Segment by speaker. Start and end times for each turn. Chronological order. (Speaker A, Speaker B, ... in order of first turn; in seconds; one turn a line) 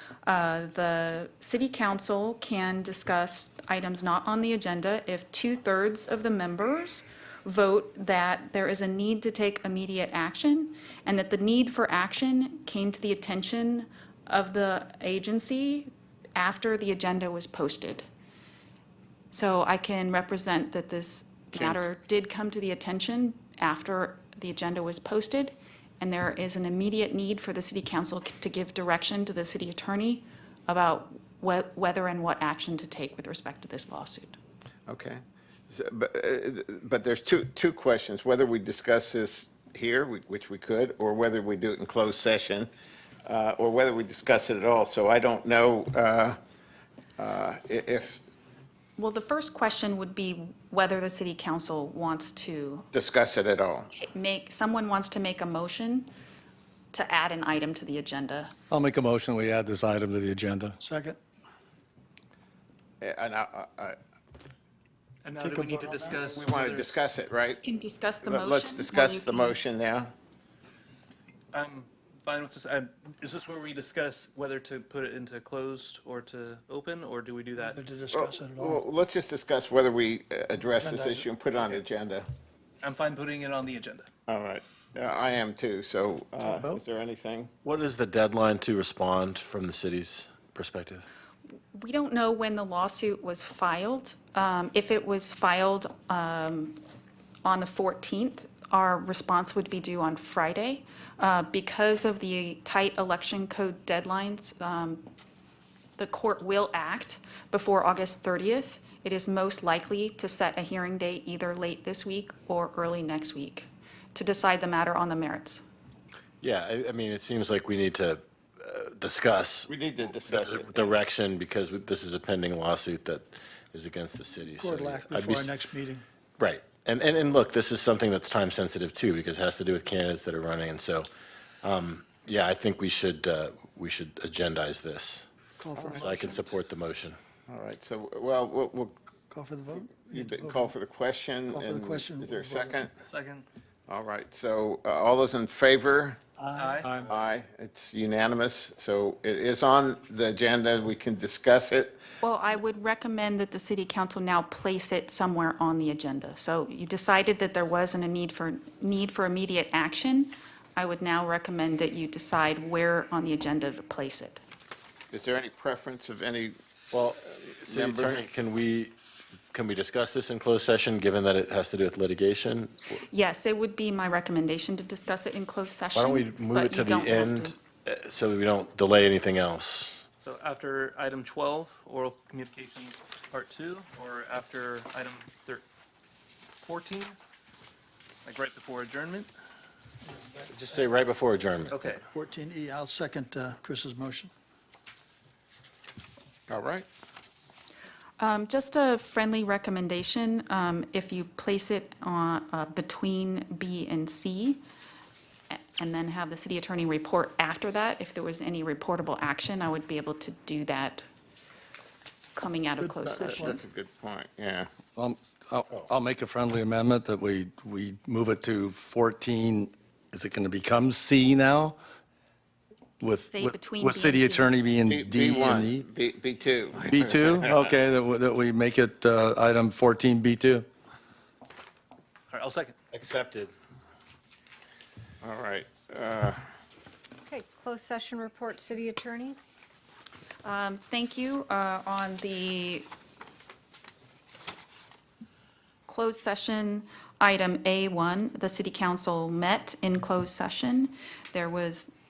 Speaker A: 0.2-18.1
Speaker A: 19.3-34.4
Speaker B: 34.9-42.7
Speaker B: 43.2-46.4
Speaker B: 47.2-48.2
Speaker A: 49.0-52.9
Speaker B: 52.9-53.9
Speaker A: 53.9-56.1
Speaker A: 56.9-58.5
Speaker C: 58.7-60.8
Speaker D: 60.8-61.2
Speaker B: 63.0-64.0
Speaker E: 65.2-67.0
Speaker D: 65.4-66.2
Speaker B: 66.0-67.6
Speaker A: 67.6-69.6
Speaker B: 68.2-70.1
Speaker E: 71.5-77.8
Speaker D: 77.6-78.8
Speaker B: 78.1-82.3
Speaker D: 80.8-81.3
Speaker E: 82.8-84.1
Speaker B: 84.3-87.5
Speaker D: 86.4-86.8
Speaker F: 87.6-91.0
Speaker A: 91.7-96.8
Speaker A: 97.4-105.0
Speaker A: 106.0-115.6
Speaker F: 116.4-125.6
Speaker B: 119.7-121.0
Speaker D: 124.5-126.0
Speaker F: 126.4-131.1
Speaker F: 131.6-135.3
Speaker D: 135.6-136.5
Speaker F: 135.9-137.2
Speaker B: 137.5-139.0
Speaker D: 139.3-140.7
Speaker B: 140.0-142.9
Speaker D: 141.5-142.8
Speaker E: 143.0-143.4
Speaker B: 143.9-146.2
Speaker D: 146.4-147.1
Speaker E: 146.5-147.0
Speaker B: 147.1-152.0
Speaker A: 152.2-164.4
Speaker B: 165.1-166.6
Speaker F: 166.9-168.9
Speaker B: 167.7-168.2
Speaker F: 169.5-172.9
Speaker A: 173.1-177.5
Speaker F: 175.9-180.0
Speaker E: 180.2-185.6
Speaker E: 186.6-187.2
Speaker E: 188.2-189.3
Speaker D: 190.1-190.8
Speaker F: 190.5-191.8
Speaker E: 191.7-192.0
Speaker D: 192.1-194.3
Speaker B: 196.5-196.8
Speaker A: 198.2-204.6
Speaker A: 205.5-211.1
Speaker A: 212.3-213.6
Speaker D: 212.8-213.6
Speaker B: 213.0-214.7
Speaker C: 214.9-221.8
Speaker F: 215.7-215.9
Speaker C: 223.0-225.9
Speaker A: 223.3-224.5
Speaker B: 224.9-227.7
Speaker C: 226.8-230.7
Speaker E: 232.3-232.8
Speaker F: 232.9-233.5
Speaker B: 235.2-236.4
Speaker G: 237.2-239.4
Speaker A: 240.4-242.9
Speaker A: 245.9-251.9